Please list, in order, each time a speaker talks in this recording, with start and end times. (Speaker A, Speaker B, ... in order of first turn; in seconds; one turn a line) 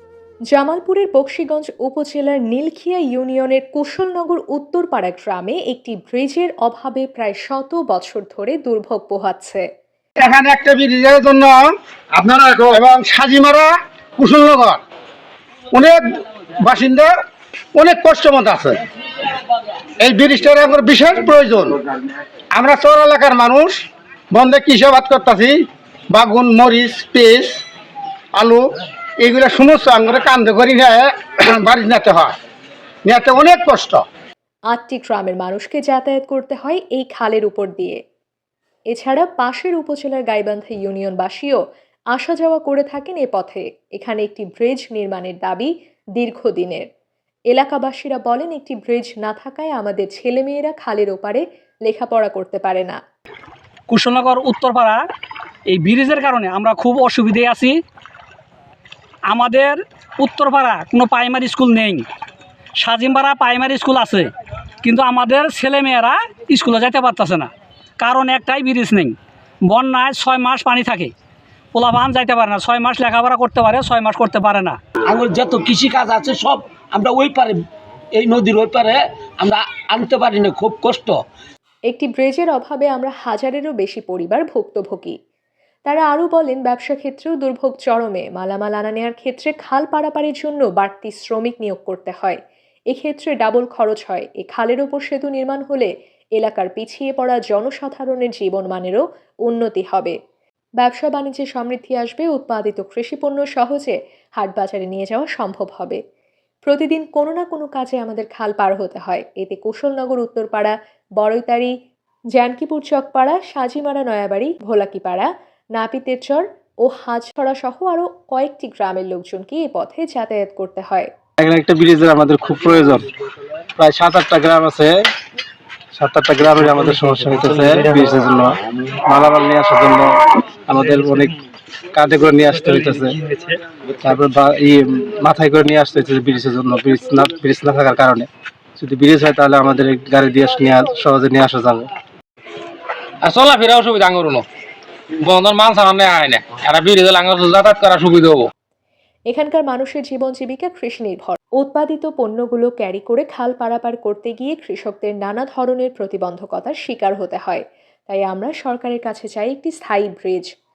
Speaker A: 0.5-9.7
Speaker B: 10.2-14.8
Speaker B: 15.7-17.1
Speaker B: 17.7-18.8
Speaker B: 20.0-21.8
Speaker B: 22.5-27.6
Speaker B: 28.3-32.3
Speaker B: 33.0-34.0
Speaker A: 34.7-38.0
Speaker A: 38.9-41.6
Speaker A: 42.1-46.9
Speaker A: 47.5-53.0
Speaker C: 53.9-55.0
Speaker C: 55.7-57.8
Speaker C: 59.3-62.0
Speaker C: 62.8-64.3
Speaker C: 64.8-71.1
Speaker C: 71.7-74.8
Speaker D: 75.1-77.6
Speaker D: 78.1-81.2
Speaker A: 81.9-85.2
Speaker A: 85.8-92.4
Speaker A: 92.9-100.1
Speaker A: 100.8-106.0
Speaker A: 106.7-111.7
Speaker A: 112.3-121.1
Speaker E: 121.4-123.1
Speaker E: 123.8-125.1
Speaker E: 125.9-131.3
Speaker E: 131.9-133.2
Speaker E: 134.0-141.9
Speaker F: 143.3-144.4
Speaker F: 145.3-148.4
Speaker A: 149.3-160.5